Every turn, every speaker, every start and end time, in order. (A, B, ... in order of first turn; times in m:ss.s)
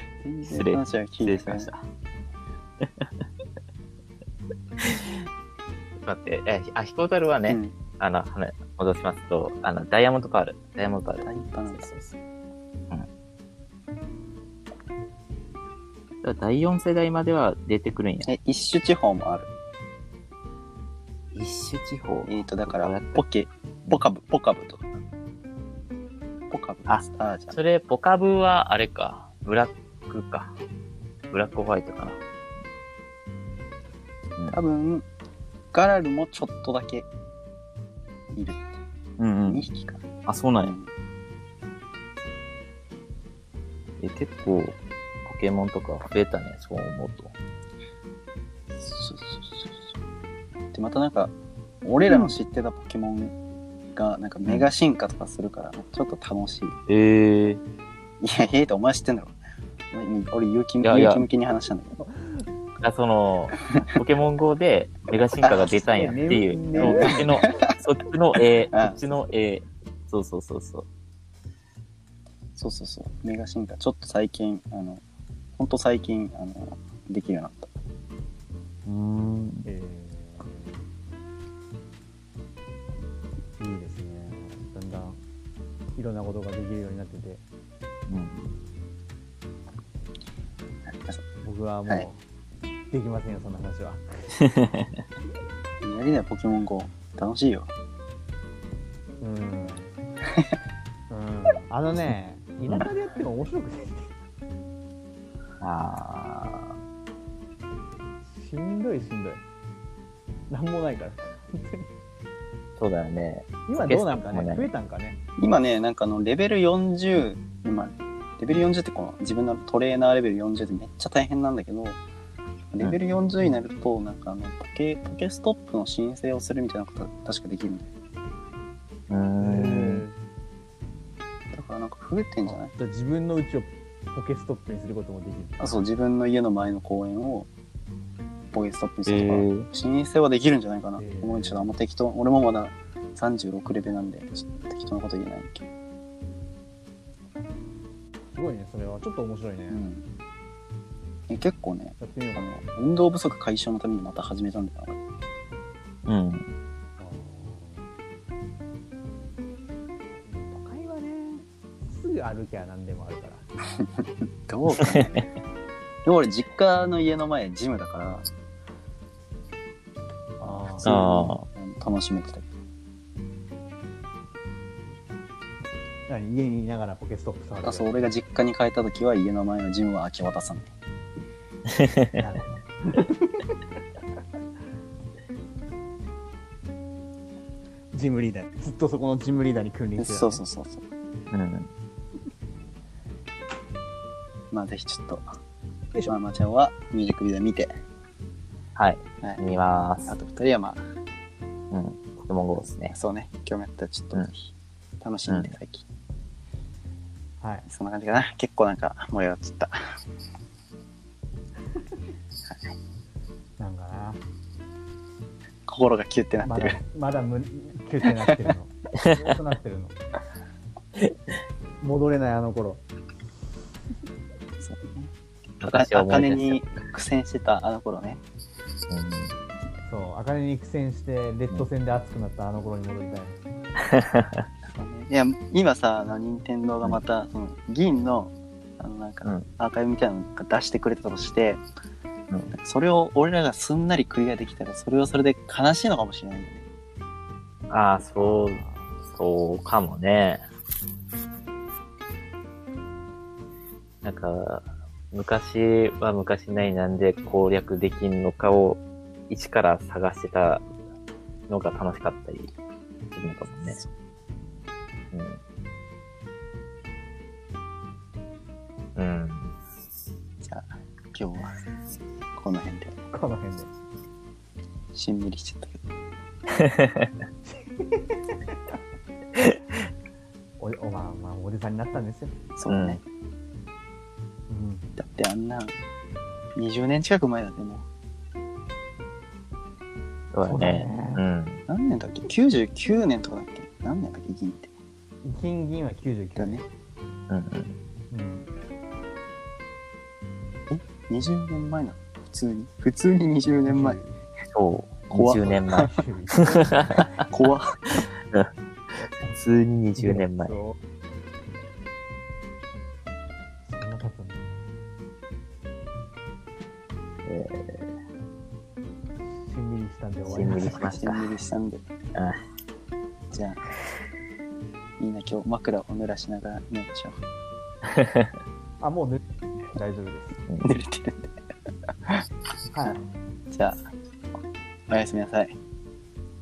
0:00.2-0:01.7 A
0:00.4-0:01.8 B
0:02.8-0:03.1 B
0:04.8-0:05.2 B
0:06.0-0:12.0 B
0:07.5-0:07.8 A
0:11.2-0:12.1 A
0:16.2-0:18.3 B
0:18.2-0:19.5 A
0:21.3-0:23.2 B
0:22.2-0:24.9 A
0:26.5-0:27.6 A
0:26.9-0:30.5 B
0:31.3-0:32.2 B
0:34.5-0:35.0 A
0:35.7-0:37.1 A
0:38.3-0:38.8 A
0:39.2-0:39.7 B
0:39.4-0:40.0 A
0:40.2-0:40.8 B
0:40.6-0:40.9 A
0:44.0-0:47.3 B
0:48.8-0:49.9 A
0:50.7-0:53.3 A
0:53.9-0:56.7 A
0:54.4-0:54.7 B
0:56.9-0:57.6 B
0:58.2-0:59.3 A
0:59.9-1:02.0 A
1:00.8-1:01.2 B
1:02.0-1:02.5 C
1:02.8-1:10.8 B
1:05.4-1:06.1 A
1:05.8-1:07.2 C
1:06.7-1:07.7 A
1:08.4-1:09.0 A
1:12.6-1:15.0 A
1:15.6-1:17.7 A
1:18.8-1:19.7 B
1:19.6-1:20.8 C
1:23.6-1:25.2 C
1:26.0-1:27.4 C
1:28.1-1:28.5 B
1:30.9-1:31.2 A
1:31.4-1:32.2 C
1:32.9-1:34.3 C
1:34.4-1:35.0 B
1:35.8-1:37.7 A
1:39.2-1:39.9 C
1:40.3-1:40.6 A
1:41.1-1:44.1 C
1:45.6-1:46.8 B
1:48.2-1:49.4 C
1:50.5-1:51.9 C
1:52.8-1:54.7 B
1:53.7-1:55.2 C
1:55.4-2:02.0 A
2:02.7-2:07.9 A
2:09.1-2:10.0 B
2:09.4-2:10.2 C
2:11.5-2:12.7 A
2:12.4-2:15.8 C
2:15.6-2:17.5 A
2:18.5-2:25.7 A
2:19.1-2:19.7 B
2:21.0-2:21.8 C
2:28.3-2:29.8 C
2:29.7-2:30.0 A
2:31.3-2:35.0 A
2:32.0-2:32.4 C
2:36.0-2:36.4 B
2:37.0-2:37.9 C
2:40.2-2:43.4 C
2:43.8-2:45.2 A
2:44.7-2:45.2 B
2:46.0-2:48.3 A
2:50.4-2:51.0 C
2:50.8-2:52.5 A
2:50.8-2:51.4 B
2:56.1-2:58.0 C
2:57.6-3:00.7 A
3:01.7-3:02.2 B
3:02.2-3:03.6 C
3:07.9-3:10.4 C
3:10.0-3:10.8 A
3:11.3-3:11.7 B
3:14.5-3:15.2 A
3:16.1-3:17.7 A
3:18.8-3:20.2 B
3:20.1-3:20.8 A
3:21.7-3:22.9 B
3:22.9-3:25.8 A
3:25.3-3:25.5 B
3:27.4-3:27.7 C
3:27.7-3:29.9 A
3:32.4-3:32.7 A
3:33.6-3:34.2 C
3:35.7-3:36.8 A
3:36.4-3:40.0 C
3:38.2-3:38.5 A
3:41.8-3:42.8 C
3:44.6-3:48.2 A
3:45.6-3:46.6 B
3:48.9-3:49.4 B
3:49.9-3:53.4 C
3:53.8-3:54.5 B
3:54.6-4:01.6 A
4:02.5-4:06.6 A
4:07.7-4:10.4 B
4:08.2-4:09.0 C
4:14.0-4:20.6 B
4:21.5-4:22.5 B
4:23.1-4:23.8 B
4:25.1-4:25.4 B
4:29.0-4:29.5 B
4:30.4-4:31.5 A
4:32.3-4:33.0 A
4:33.1-4:33.7 C
4:34.9-4:35.8 A
4:36.6-4:37.1 B
4:37.4-4:38.8 C
4:40.6-4:42.4 C
4:42.6-4:43.0 A
4:42.7-4:43.0 B
4:44.5-4:44.9 C
4:45.0-4:45.7 A
4:46.6-4:47.8 A
4:50.3-4:51.6 B
4:50.4-4:51.2 C
4:51.7-4:54.7 A
4:55.2-4:56.6 C
4:56.4-4:56.6 A
4:57.3-4:57.7 B
4:58.1-4:58.5 C
5:00.7-5:04.0 A
5:03.5-5:04.2 C
5:04.5-5:06.0 B
5:05.1-5:05.8 A
5:05.5-5:07.1 C
5:06.5-5:07.1 B
5:06.9-5:08.0 A
5:09.3-5:10.6 B
5:10.0-5:10.8 C
5:13.7-5:14.6 C
5:17.2-5:17.9 B
5:19.4-5:21.0 C
5:20.3-5:21.3 B
5:20.8-5:21.8 A
5:22.1-5:22.4 B
5:23.3-5:23.6 A
5:25.0-5:27.2 A
5:27.9-5:28.3 B
5:28.8-5:30.4 C
5:30.6-5:31.4 A
5:32.7-5:33.0 C
5:33.5-5:33.8 A
5:34.9-5:35.6 A